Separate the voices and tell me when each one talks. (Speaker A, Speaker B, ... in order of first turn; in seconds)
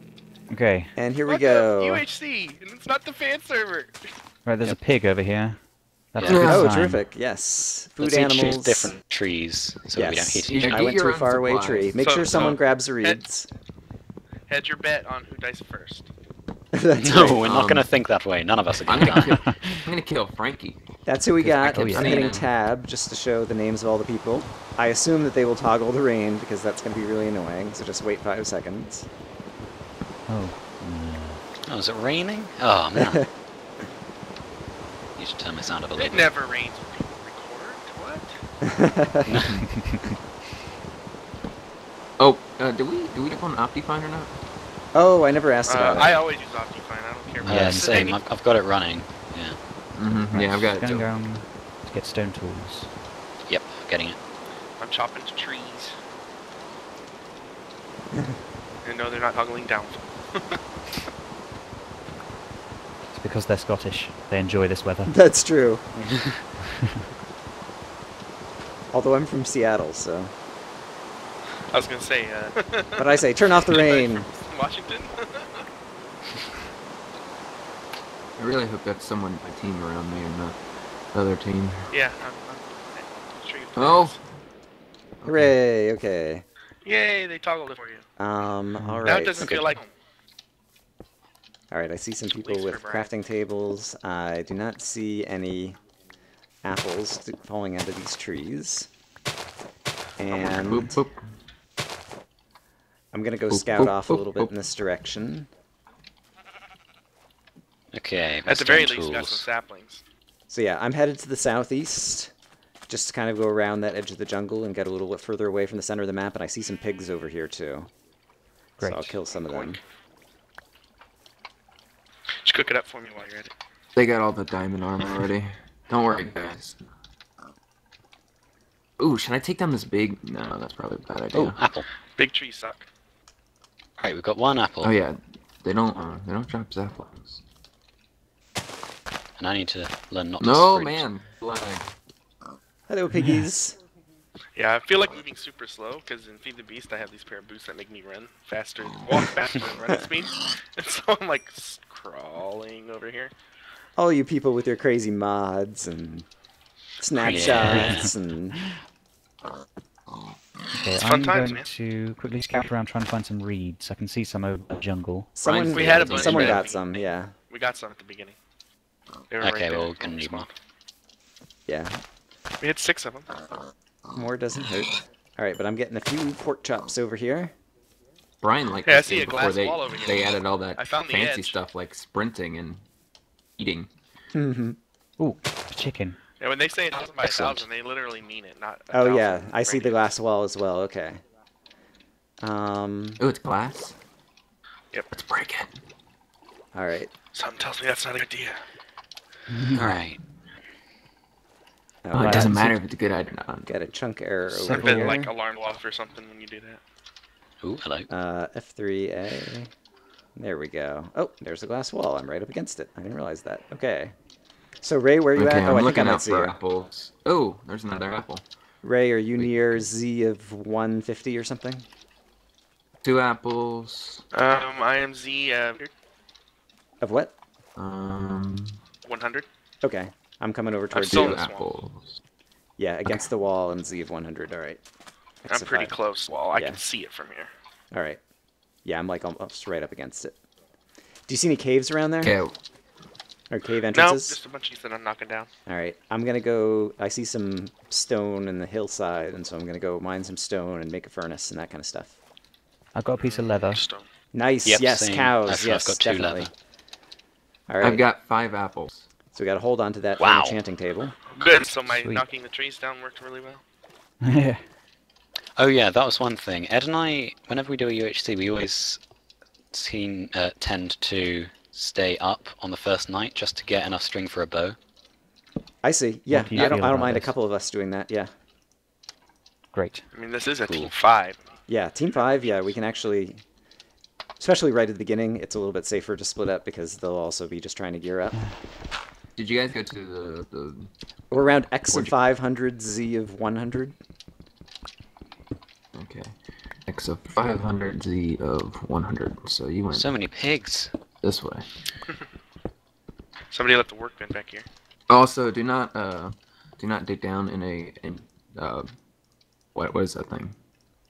Speaker A: 0.5-0.9, 4.5-5.6, 6.1-7.0, 19.3-19.9, 21.6-22.2, 30.3-31.4, 39.7-40.0, 47.4-48.2, 50.3-52.9, 63.1-65.2, 88.8-89.1, 118.8-119.2, 160.7-165.4, 185.2-186.2, 199.5-199.9, 202.1-202.8, 204.5-205.3, 252.9-253.8, 261.9-262.2, 264.2-264.6, 276.3-277.3, 279.7-280.1, 288.3-288.6
Speaker B: 1.0-2.0, 6.4-8.9, 9.9-13.5, 16.7-17.4, 21.1-29.1, 33.0-33.3, 38.6-39.4, 44.9-46.2, 58.1-58.4, 65.1-66.1, 68.9-70.3, 73.0-74.3, 85.2-86.5, 88.2-89.7, 91.7-95.8, 96.6-98.9, 100.2-101.0, 103.1-105.5, 110.5-112.3, 112.9-117.9, 118.8-119.8, 142.9-143.8, 154.0-156.3, 157.0-158.6, 165.4-167.3, 171.7-172.0, 174.1-177.5, 184.3-184.8, 188.9-191.2, 192.4-193.2, 196.7-197.1, 202.1-202.6, 203.7-205.2, 208.1-209.7, 210.4-214.1, 214.8-216.6, 218.8-221.8, 227.0-227.4, 229.8-231.4, 232.8-234.8, 235.4-236.0, 236.5-236.8, 237.9-238.2, 238.8-240.4, 241.3-242.4, 243.5-244.4, 245.7-252.1, 254.3-256.5, 257.7-258.0, 259.3-261.2, 275.8-278.3, 281.7-283.4, 284.4-288.4, 291.3-294.0
Speaker C: 1.3-4.1, 11.9-13.2, 14.5-16.1, 36.0-38.4, 45.7-48.2, 54.8-56.0, 58.8-60.6, 71.7-75.7, 81.9-84.2, 86.8-88.0, 89.0-89.9, 92.3-93.1, 108.5-110.0, 119.4-119.8, 122.4-123.5, 132.2-132.9, 144.6-153.3, 157.2-158.0, 160.9-161.7, 165.7-168.4, 169.3-170.5, 172.6-173.3, 178.9-181.6, 186.4-190.1, 197.3-198.6, 204.6-206.8, 224.3-225.9, 229.1-229.5, 230.9-231.7, 235.5-237.5, 243.9-245.5, 253.2-254.1, 261.3-263.6, 280.1-281.4, 303.5-304.7
Speaker D: 6.2-6.5, 8.0-10.9, 16.9-19.5, 31.7-33.3, 35.2-36.3, 39.2-39.6, 47.5-49.6, 53.5-54.2, 107.9-109.5, 131.3-131.9, 134.0-134.9, 139.4-141.1, 157.2-158.1, 169.4-170.5, 187.2-187.7, 199.7-200.2, 207.6-208.1, 254.6-256.5, 260.2-260.6, 265.6-269.0, 269.7-274.8, 280.7-280.9, 299.9-300.9
Speaker E: 6.2-6.7, 10.5-12.0, 17.4-17.9, 18.9-20.8, 21.4-22.5, 42.2-44.3, 50.0-51.1, 78.4-80.6, 81.1-81.9, 83.8-84.2, 100.3-101.2, 103.5-104.5, 124.0-126.8, 129.0-131.6, 134.8-137.4, 140.4-141.9, 165.4-166.7, 178.4-182.8, 183.6-183.9, 193.2-193.9, 195.1-195.8, 202.2-203.7, 215.3-218.4, 223.0-224.2, 227.8-228.8, 231.1-232.2, 242.2-242.6, 257.8-259.1, 289.4-290.9, 291.9-292.2, 295.9-300.1, 301.2-301.7, 305.1-308.9, 309.8-310.6